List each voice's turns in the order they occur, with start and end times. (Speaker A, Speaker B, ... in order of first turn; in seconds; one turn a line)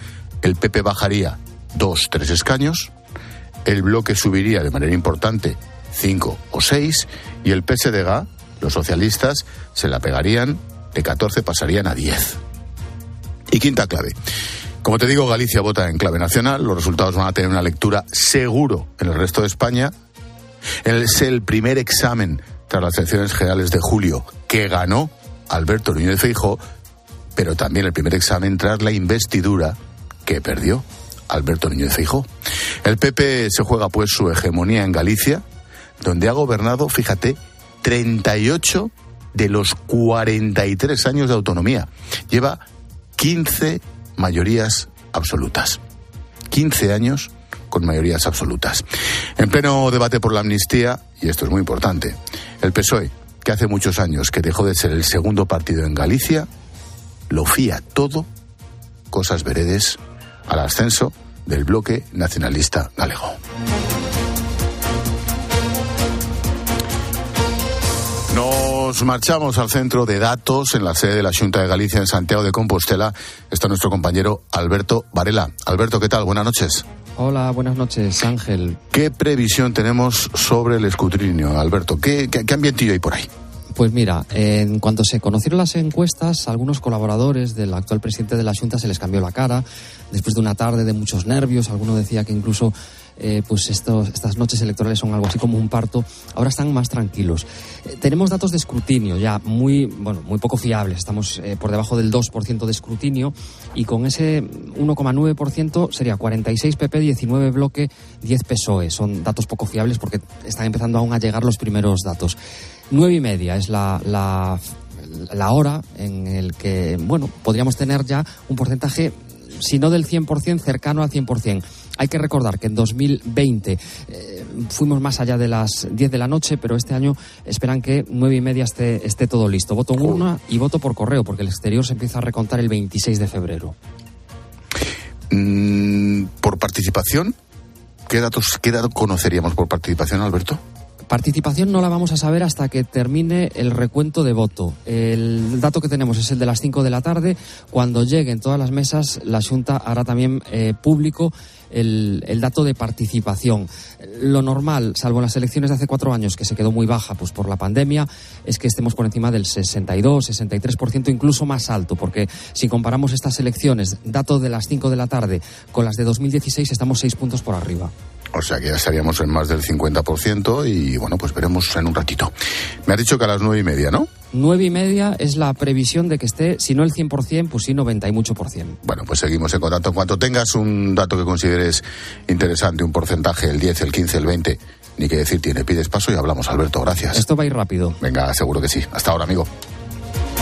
Speaker A: 0.4-2.9
Speaker A: 3.6-12.4
Speaker A: 13.5-14.2
Speaker A: 14.8-19.9
Speaker A: 20.8-26.6
Speaker A: 27.4-32.3
Speaker A: 32.8-35.4
Speaker A: 36.0-42.6
Speaker A: 43.2-45.8
Speaker A: 46.5-48.8
Speaker A: 49.4-56.5
Speaker A: 57.3-58.3
Speaker A: 59.1-63.4
Speaker A: 68.3-76.8
Speaker B: 77.2-78.8
Speaker A: 78.9-83.3
Speaker B: 83.8-112.4
Speaker B: 112.9-133.8
Speaker A: 135.3-137.3
Speaker A: 138.1-140.6
Speaker B: 141.1-167.9
Speaker A: 168.3-172.3
Speaker A: 172.9-174.1
Speaker B: 174.3-178.8
Speaker A: 178.8-187.2
Speaker B: 187.1-188.0
Speaker A: 188.0-189.5